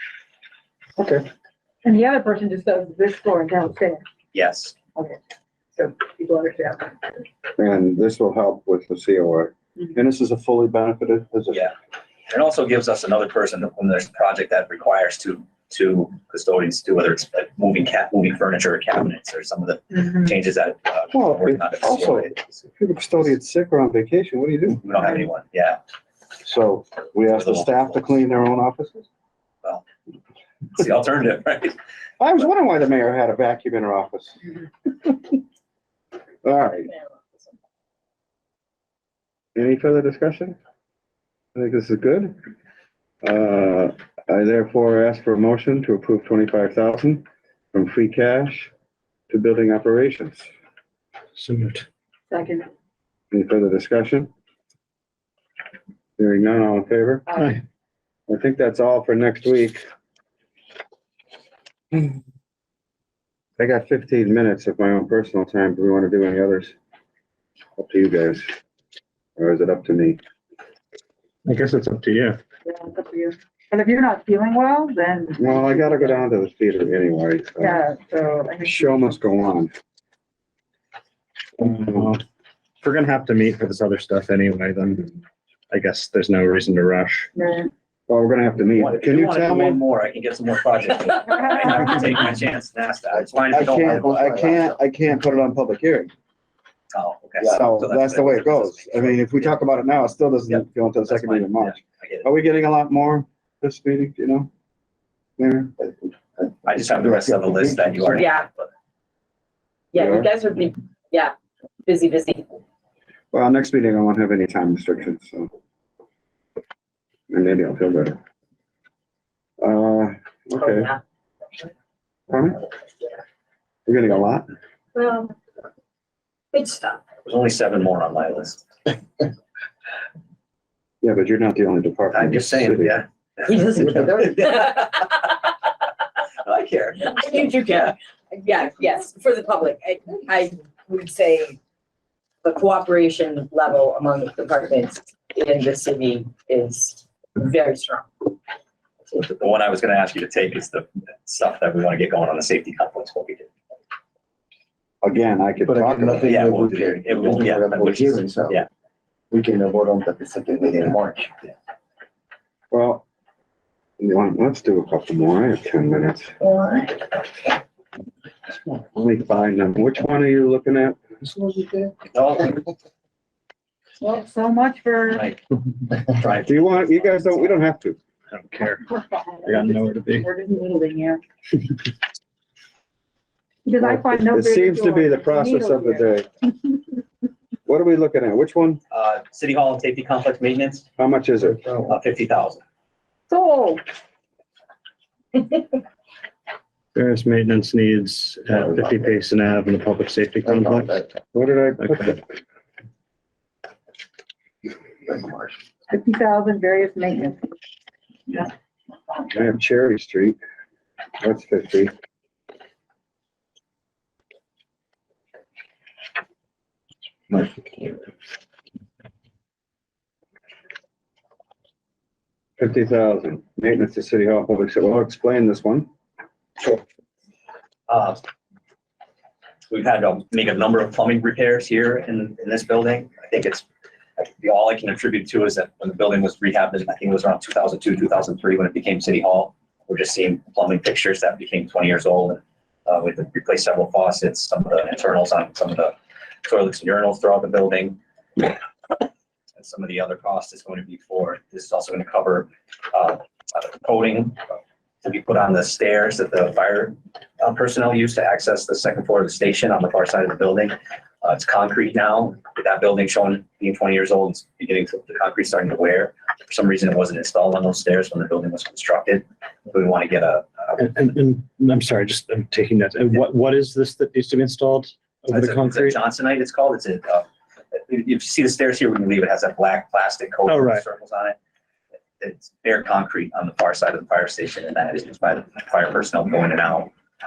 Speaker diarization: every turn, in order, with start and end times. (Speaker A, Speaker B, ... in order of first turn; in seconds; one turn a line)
Speaker A: 1.0-1.2
Speaker B: 1.8-4.0
Speaker C: 4.3-4.8
Speaker B: 5.8-7.2
Speaker A: 7.6-11.7
Speaker C: 12.3-22.7
Speaker A: 21.1-25.1
Speaker C: 24.8-25.8
Speaker A: 26.4-29.1
Speaker C: 27.2-28.2
Speaker C: 30.7-31.8
Speaker A: 32.2-34.5
Speaker A: 36.4-36.9
Speaker A: 39.5-40.6
Speaker A: 41.5-42.4
Speaker A: 43.2-48.7
Speaker A: 49.3-50.5
Speaker D: 51.4-51.9
Speaker B: 52.3-52.7
Speaker A: 53.3-54.3
Speaker A: 56.2-57.3
Speaker B: 57.3-57.6
Speaker A: 58.3-59.8
Speaker A: 63.6-66.8
Speaker A: 67.8-68.5
Speaker A: 69.4-70.2
Speaker D: 71.5-72.4
Speaker B: 72.7-76.2
Speaker A: 75.4-77.8
Speaker B: 77.6-79.2
Speaker A: 78.6-79.7
Speaker D: 81.6-82.2
Speaker D: 82.8-85.2
Speaker D: 85.7-87.3
Speaker B: 87.3-87.7
Speaker A: 88.1-89.8
Speaker C: 88.8-94.6
Speaker B: 91.4-91.8
Speaker E: 93.1-94.7
Speaker A: 93.5-96.1
Speaker C: 96.9-99.6
Speaker A: 97.4-104.5
Speaker C: 100.5-102.3
Speaker A: 105.4-105.8
Speaker C: 106.7-108.7
Speaker F: 108.1-108.5
Speaker F: 109.9-111.3
Speaker A: 109.9-110.3
Speaker F: 111.8-112.5
Speaker A: 113.3-115.5
Speaker A: 117.3-118.2
Speaker A: 119.6-120.9
Speaker F: 120.6-121.0
Speaker A: 122.3-122.6
Speaker A: 123.9-124.5
Speaker F: 125.0-125.4
Speaker F: 126.5-127.0
Speaker C: 127.2-128.6
Speaker A: 131.0-133.0
Speaker C: 132.1-134.8
Speaker F: 133.5-135.2
Speaker C: 136.4-137.5
Speaker F: 137.0-141.6
Speaker F: 142.4-148.1
Speaker C: 149.1-153.5
Speaker A: 155.0-156.4
Speaker E: 155.7-158.6
Speaker C: 156.3-158.7
Speaker E: 159.3-161.5
Speaker A: 162.7-163.1
Speaker A: 164.0-166.3
Speaker F: 166.4-167.0
Speaker A: 168.9-171.0
Speaker E: 171.2-171.9
Speaker C: 172.1-172.7
Speaker B: 174.0-175.3
Speaker C: 175.1-175.4
Speaker C: 176.0-177.6
Speaker A: 176.5-178.0
Speaker D: 178.3-178.9
Speaker B: 178.9-181.2
Speaker D: 179.4-180.3
Speaker B: 183.7-186.8
Speaker A: 183.8-186.3
Speaker A: 187.7-188.8
Speaker C: 188.9-190.9
Speaker A: 191.0-191.7
Speaker C: 191.9-192.6
Speaker B: 193.3-193.8
Speaker D: 196.9-201.1
Speaker E: 200.4-201.0
Speaker A: 201.3-202.2
Speaker D: 201.8-202.2
Speaker E: 205.1-205.4
Speaker B: 205.9-207.5
Speaker A: 209.3-210.4
Speaker A: 211.2-211.9
Speaker E: 217.3-218.0
Speaker A: 222.6-225.9
Speaker C: 227.9-228.2
Speaker C: 229.7-233.7
Speaker C: 234.2-248.0
Speaker C: 249.6-270.8
Speaker D: 270.8-276.0
Speaker C: 275.3-281.4
Speaker D: 280.5-280.8
Speaker C: 282.2-286.9